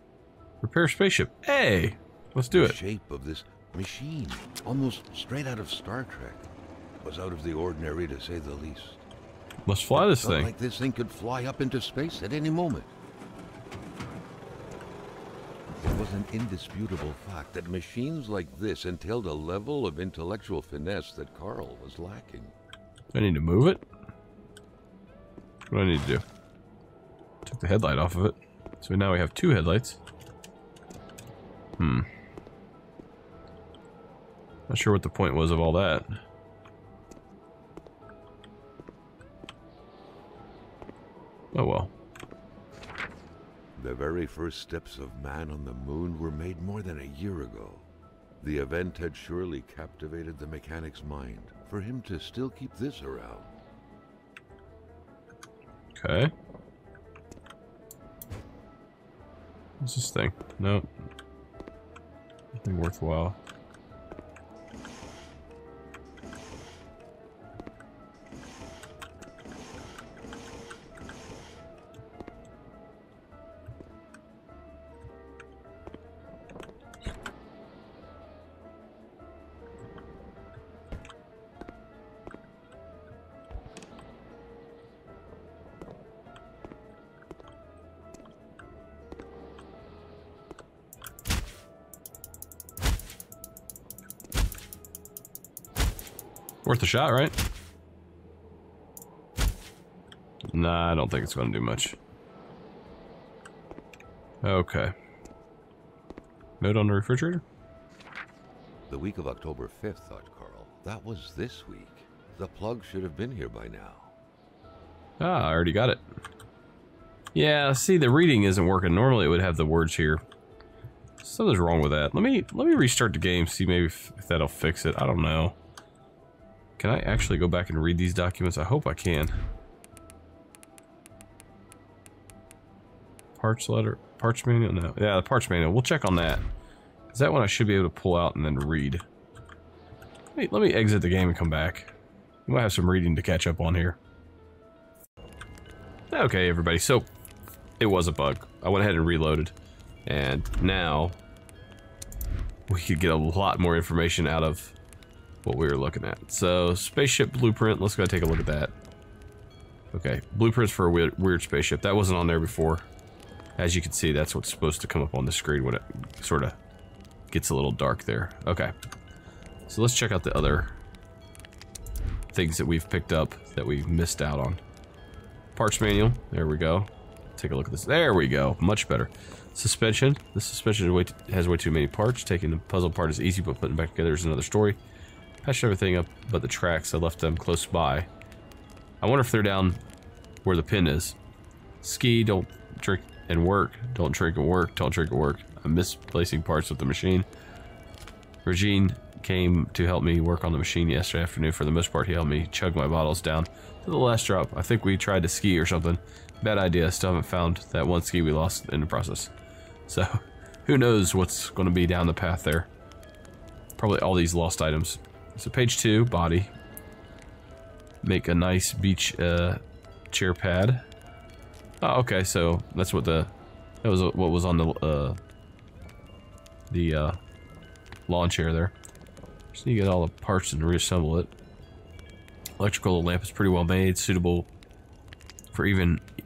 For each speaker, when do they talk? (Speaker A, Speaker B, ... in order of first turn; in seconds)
Speaker A: 0.6-2.8, 9.7-10.5, 23.1-23.8, 25.7-26.2, 27.4-30.0, 31.8-32.1, 34.7-36.1, 41.5-41.9, 56.0-56.3, 59.8-60.9, 62.6-63.4, 96.6-97.3, 100.5-102.0, 104.4-104.9, 106.6-107.4, 115.2-116.0, 117.3-120.2, 121.2-125.5, 126.8-129.3, 133.4-136.4, 137.1-139.0, 140.3-141.9, 142.5-144.0, 146.1-147.1, 147.8-149.5, 150.1-151.2, 152.7-154.8, 155.4-158.7, 159.9-162.9, 163.6-166.6, 167.3-168.7, 169.7-170.8, 172.3-174.6, 175.5-184.8, 185.4-188.1, 189.0-189.8, 190.4-191.2, 191.8-197.3, 198.4-209.3, 209.9-212.7, 213.8-216.5, 218.0-220.8, 221.8-225.2, 226.7-227.2, 228.1-228.7, 229.5-231.3, 232.6-234.5, 235.5-236.0
Speaker B: 2.5-9.0, 9.9-12.9, 15.7-22.5, 43.8-47.9, 48.4-53.5, 108.9-114.1